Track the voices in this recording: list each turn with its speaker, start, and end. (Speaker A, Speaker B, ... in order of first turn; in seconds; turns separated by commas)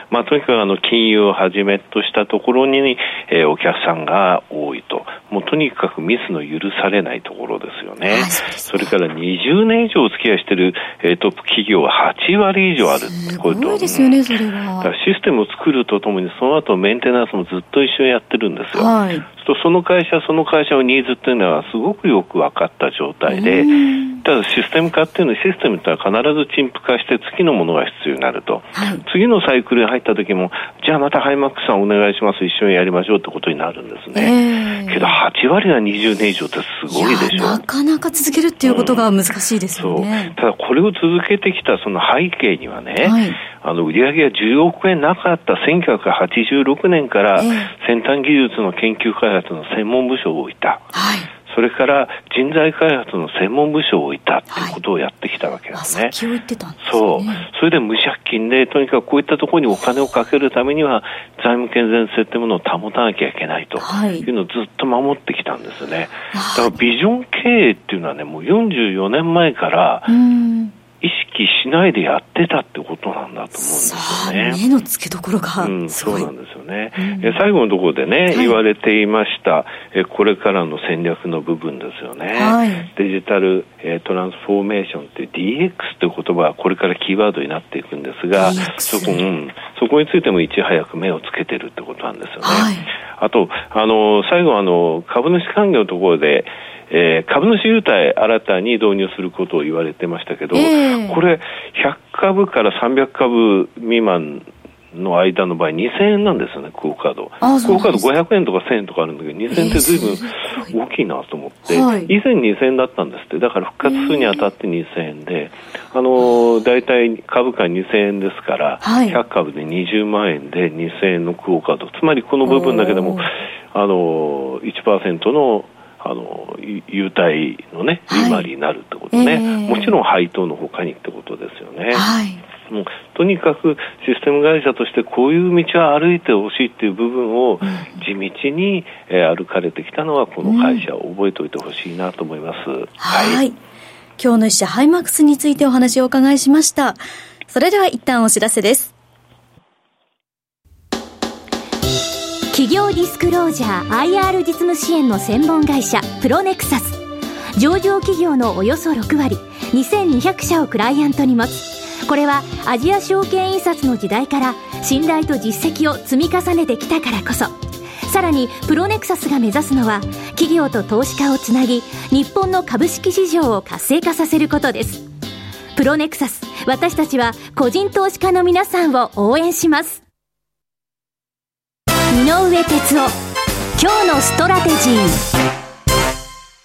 Speaker A: 0.1-14.2, Speaker B: 8.1-8.9, Speaker B: 13.0-14.9, Speaker A: 14.8-23.7, Speaker B: 18.8-19.2, Speaker B: 23.3-24.2, Speaker A: 24.2-37.6, Speaker B: 28.8-29.0, Speaker B: 34.1-35.2, Speaker B: 36.9-40.4, Speaker A: 38.6-39.1, Speaker A: 39.8-50.9, Speaker B: 43.0-43.4, Speaker B: 47.4-47.7, Speaker B: 50.9-51.3, Speaker A: 51.5-56.1, Speaker B: 54.5-54.8, Speaker B: 55.7-57.5, Speaker A: 56.8-70.1, Speaker B: 63.8-64.3, Speaker B: 66.3-66.8, Speaker B: 70.1-70.7, Speaker A: 71.0-74.6, Speaker B: 73.6-76.3, Speaker A: 75.6-132.1, Speaker B: 77.0-77.4, Speaker B: 82.3-82.9, Speaker B: 88.3-89.2, Speaker B: 92.4-92.8, Speaker B: 100.5-101.2, Speaker B: 107.4-108.1, Speaker B: 109.5-110.7, Speaker B: 111.7-112.1, Speaker B: 113.8-114.5, Speaker B: 118.8-119.2, Speaker B: 122.4-123.2, Speaker B: 128.1-128.4, Speaker B: 129.1-130.0, Speaker B: 131.9-132.4, Speaker A: 132.7-143.4, Speaker B: 137.6-138.0, Speaker B: 140.4-140.8, Speaker B: 143.0-143.6, Speaker B: 144.2-148.9, Speaker C: 152.5-157.0, Speaker C: 157.6-175.0, Speaker C: 175.8-180.0, Speaker C: 182.1-183.1, Speaker C: 183.8-185.2